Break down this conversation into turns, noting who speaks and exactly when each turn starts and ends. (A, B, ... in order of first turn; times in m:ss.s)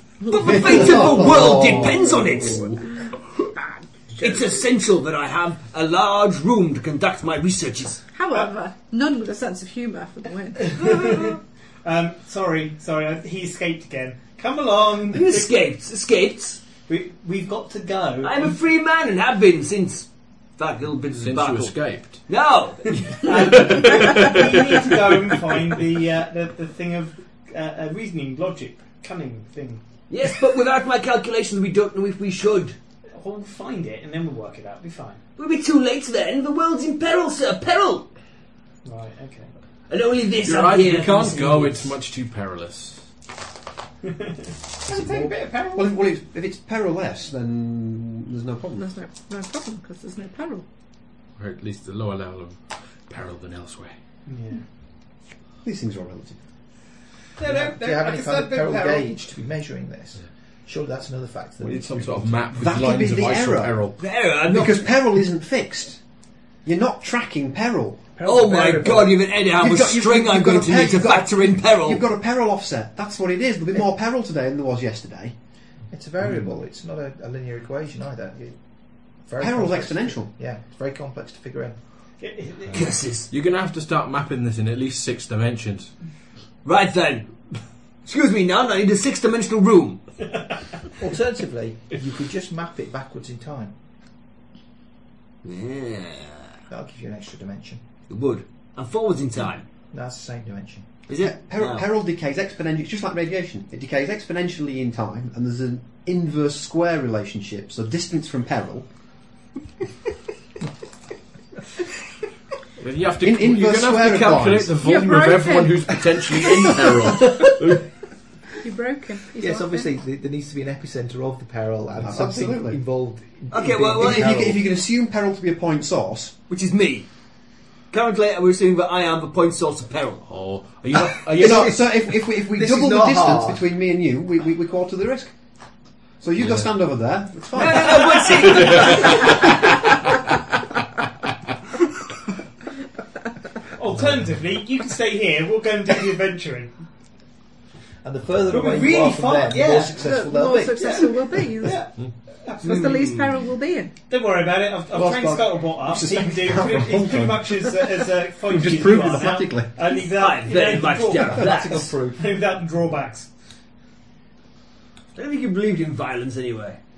0:00.2-0:00.6 A
0:00.3-0:02.7 B
0:00.5-0:02.7 C
0:01.5-0:02.0 D
0:03.1-0:04.5 A
0:04.2-0:08.0 B
0:08.1-0:10.8 A
0:10.6-0:15.6 E
0:15.1-0:16.6 B
0:16.9-0:18.6 E
0:18.2-0:23.3 B
0:21.1-0:22.3 F
0:23.1-0:29.8 E
0:23.3-0:24.5 F
0:30.1-0:32.8 B
0:33.1-0:35.2 E
0:35.4-0:38.1 B
0:38.8-0:39.5 E
0:39.9-0:41.7 B
0:40.4-0:43.1 F
0:44.9-0:48.9 C
0:48.8-0:50.6 A
0:51.4-0:54.0 F
0:54.3-0:54.6 E
0:55.6-0:56.4 C
0:57.4-0:59.1 E
0:57.4-1:02.6 D
1:01.6-1:04.0 F
1:02.6-1:08.1 C
1:04.0-1:04.9 B
1:08.2-1:09.1 D
1:08.2-1:12.0 B
1:09.6-1:15.4 C
1:15.9-1:21.8 D
1:19.4-1:20.3 C
1:22.2-1:22.9 E
1:22.7-1:23.3 B
1:23.3-1:26.0 F
1:26.6-1:30.3 B
1:31.0-1:33.8 D
1:35.4-1:36.6 B
1:36.7-1:37.8 D
1:38.1-1:39.7 B
1:39.9-1:41.0 D
1:41.1-1:41.9 B
1:41.2-1:48.9 C
1:52.8-1:57.8 F
1:53.2-1:54.9 C
1:54.8-1:56.5 A
1:58.6-1:59.9 A
1:59.4-2:04.6 D
2:02.0-2:02.8 C
2:03.5-2:04.4 B
2:03.9-2:06.4 C
2:06.5-2:07.1 B
2:07.9-2:10.3 B
2:10.2-2:11.8 F
2:11.3-2:15.4 C
2:11.4-2:13.6 D
2:16.1-2:18.9 C
2:16.4-2:16.7 F
2:17.5-2:19.5 B
2:18.5-2:18.8 F
2:23.7-2:26.8 E
2:28.0-2:31.4 D
2:28.5-2:30.0 E
2:30.0-2:31.9 A
2:31.6-2:32.8 E
2:32.6-2:34.0 A
2:32.6-2:33.4 B
2:34.1-2:43.3 E
2:34.9-2:37.9 C
2:38.5-2:39.7 C
2:40.0-2:41.9 B
2:41.4-2:42.2 D
2:45.2-2:46.8 B